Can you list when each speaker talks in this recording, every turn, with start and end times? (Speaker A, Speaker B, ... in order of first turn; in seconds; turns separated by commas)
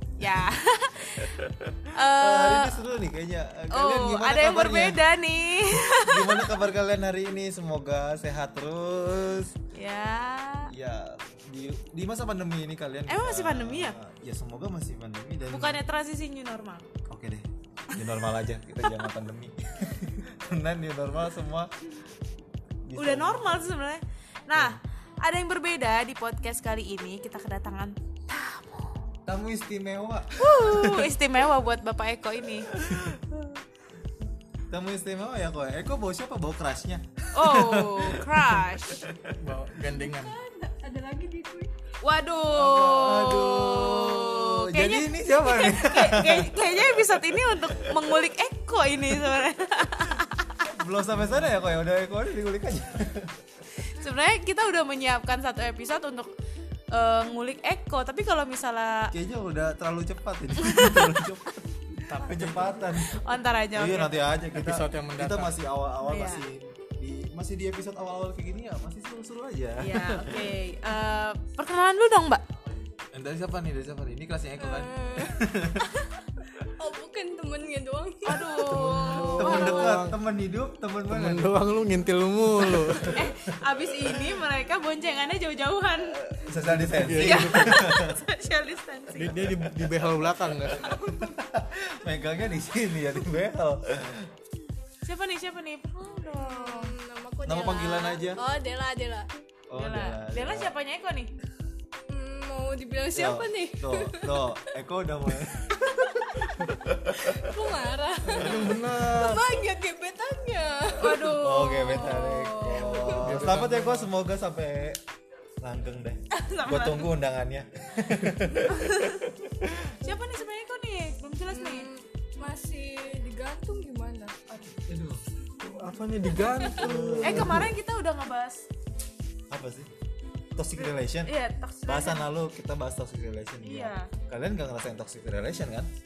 Speaker A: 0.2-1.4, Speaker B: 1.2-5.0, Speaker A: 1.9-2.9, Speaker A: 3.7-6.6, Speaker B: 5.7-9.6, Speaker A: 9.7-10.7, Speaker B: 10.7-15.8, Speaker A: 13.1-14.0, Speaker A: 15.5-16.9, Speaker B: 17.1-21.7, Speaker B: 22.9-23.6, Speaker A: 22.9-29.0, Speaker B: 24.5-24.8, Speaker B: 29.3-31.1, Speaker A: 30.4-33.6, Speaker B: 32.7-33.2, Speaker B: 34.7-39.3, Speaker A: 37.3-39.0, Speaker C: 39.3-40.3, Speaker D: 39.8-41.8, Speaker A: 42.0-50.7, Speaker B: 42.5-48.1, Speaker B: 50.6-53.8, Speaker A: 53.8-56.3, Speaker A: 56.9-59.1, Speaker B: 59.1-70.6, Speaker A: 60.6-61.3, Speaker C: 62.2-62.8, Speaker A: 62.3-64.3, Speaker C: 64.6-65.6, Speaker A: 66.0-66.5, Speaker A: 69.8-72.4, Speaker B: 73.1-75.9, Speaker D: 74.6-76.1, Speaker D: 76.6-80.0, Speaker A: 78.2-80.0, Speaker B: 78.6-81.6, Speaker C: 78.8-80.2, Speaker C: 81.1-83.2, Speaker B: 82.8-83.3, Speaker A: 83.0-86.3, Speaker B: 84.0-84.4, Speaker B: 86.2-88.2, Speaker C: 86.5-87.8, Speaker A: 87.2-89.4, Speaker C: 89.1-90.9, Speaker B: 89.4-94.3, Speaker A: 95.0-97.0, Speaker D: 96.3-99.3, Speaker B: 97.5-98.4, Speaker B: 99.7-100.7, Speaker A: 99.7-101.3, Speaker D: 102.1-104.7, Speaker B: 103.1-107.5, Speaker D: 107.1-113.3, Speaker C: 108.3-109.4, Speaker A: 111.0-113.2, Speaker B: 111.1-115.0, Speaker C: 113.2-114.1, Speaker B: 115.6-120.0, Speaker A: 116.3-117.1, Speaker A: 118.7-119.3, Speaker A: 120.0-121.9, Speaker D: 121.5-124.4, Speaker A: 124.5-124.7, Speaker B: 124.8-125.3, Speaker C: 125.6-127.7, Speaker D: 126.5-126.8, Speaker B: 126.6-127.8, Speaker A: 127.2-128.7, Speaker B: 129.5-129.9, Speaker B: 130.6-135.9, Speaker A: 130.8-132.3, Speaker A: 133.6-134.1